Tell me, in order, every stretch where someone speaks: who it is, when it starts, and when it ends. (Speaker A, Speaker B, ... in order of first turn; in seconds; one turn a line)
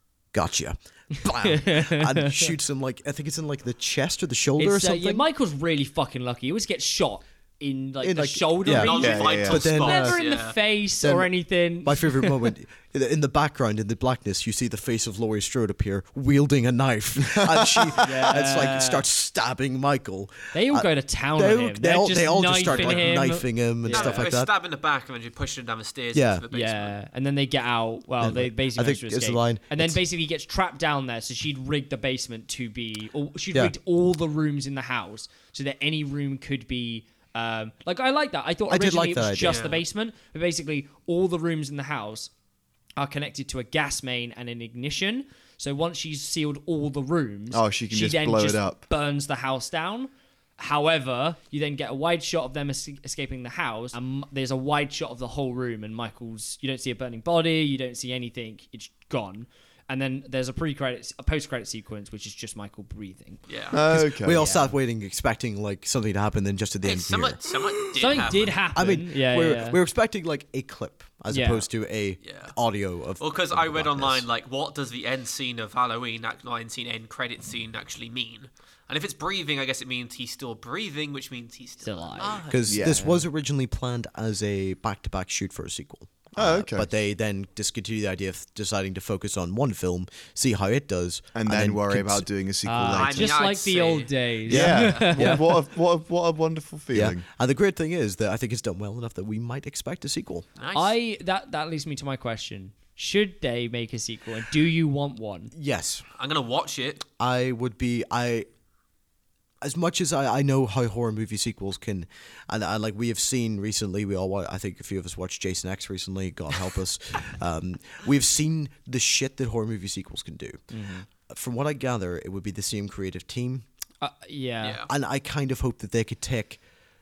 Speaker A: 0.3-5.2
Speaker B: 1.4-2.5
Speaker B: 4.6-12.5
Speaker A: 8.0-10.2
Speaker C: 8.6-10.6
Speaker D: 8.9-9.7
Speaker A: 11.0-11.3
Speaker A: 11.8-24.5
Speaker D: 17.4-18.1
Speaker B: 18.0-19.1
Speaker B: 20.5-24.2
Speaker C: 23.9-26.9
Speaker A: 26.1-26.4
Speaker B: 26.5-42.3
Speaker A: 28.2-30.0
Speaker A: 38.7-39.6
Speaker C: 39.4-39.8
Speaker B: 43.0-63.4
Speaker D: 47.5-48.8
Speaker C: 63.5-63.8
Speaker D: 63.7-64.4
Speaker A: 63.7-67.5
Speaker B: 64.2-64.7
Speaker C: 66.8-68.6
Speaker B: 68.0-69.8
Speaker A: 68.1-74.3
Speaker B: 71.3-71.7
Speaker C: 72.2-72.5
Speaker C: 73.2-82.6
Speaker B: 81.8-83.2
Speaker A: 82.5-92.3
Speaker D: 82.7-83.1
Speaker D: 86.3-86.9
Speaker D: 91.3-93.4
Speaker B: 92.6-95.4
Speaker C: 92.9-95.1
Speaker A: 94.5-95.5
Speaker D: 94.5-97.2
Speaker A: 96.9-100.5
Speaker C: 100.6-101.0
Speaker B: 100.7-105.5
Speaker A: 105.5-106.0
Speaker C: 106.2-107.0
Speaker A: 107.1-108.5
Speaker A: 109.6-123.7
Speaker B: 120.7-121.0
Speaker B: 124.0-124.8
Speaker C: 124.6-124.9
Speaker A: 124.9-126.6